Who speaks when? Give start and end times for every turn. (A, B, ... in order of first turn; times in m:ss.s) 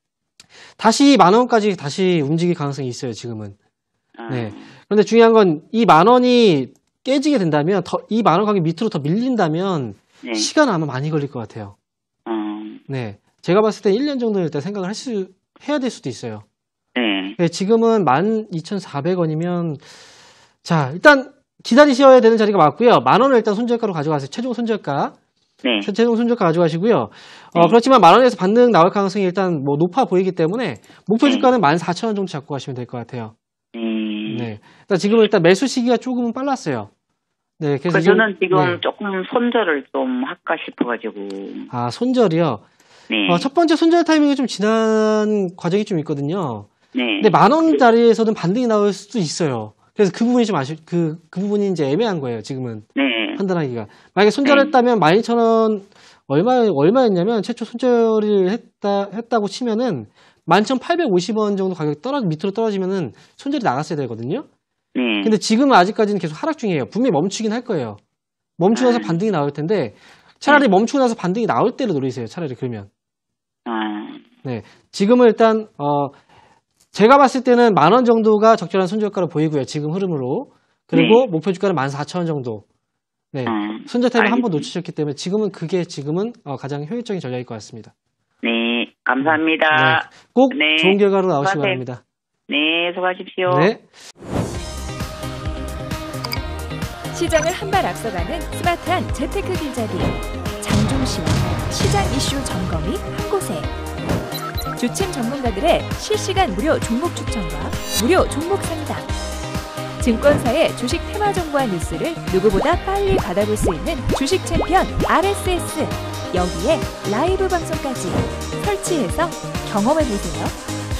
0:00.8-0:03.6 A
0:04.2-0:04.7 B
0:04.3-0:11.8 A
0:10.2-0:10.5 B
0:12.2-0:12.8 B
0:12.9-0:16.4 A
0:17.0-0:17.4 B
0:17.4-0:19.8 A
0:20.6-0:25.2 A
0:25.6-0:25.9 B
0:25.8-0:33.3 A
0:31.2-0:31.5 B
0:33.7-0:34.5 B
0:34.3-0:36.9 A
0:37.6-0:38.8 A
0:37.9-0:41.7 B
0:41.7-0:42.6 A
0:43.1-0:43.5 B
0:43.3-1:04.5 A
0:46.9-0:47.8 B
0:53.0-0:53.4 B
0:54.4-0:54.7 B
1:05.0-1:05.4 B
1:05.2-1:08.0 A
1:08.6-1:12.9 A
1:08.7-1:09.2 B
1:13.7-1:14.2 B
1:14.4-1:16.2 A
1:16.9-1:22.6 A
1:20.9-1:21.3 B
1:23.3-1:27.9 A
1:23.5-1:24.7 B
1:28.4-1:31.8 B
1:29.2-1:32.0 A
1:32.5-1:33.7 B
1:33.5-1:33.8 A
1:37.1-1:43.7 C
1:44.8-1:49.1 C
1:50.0-2:00.6 C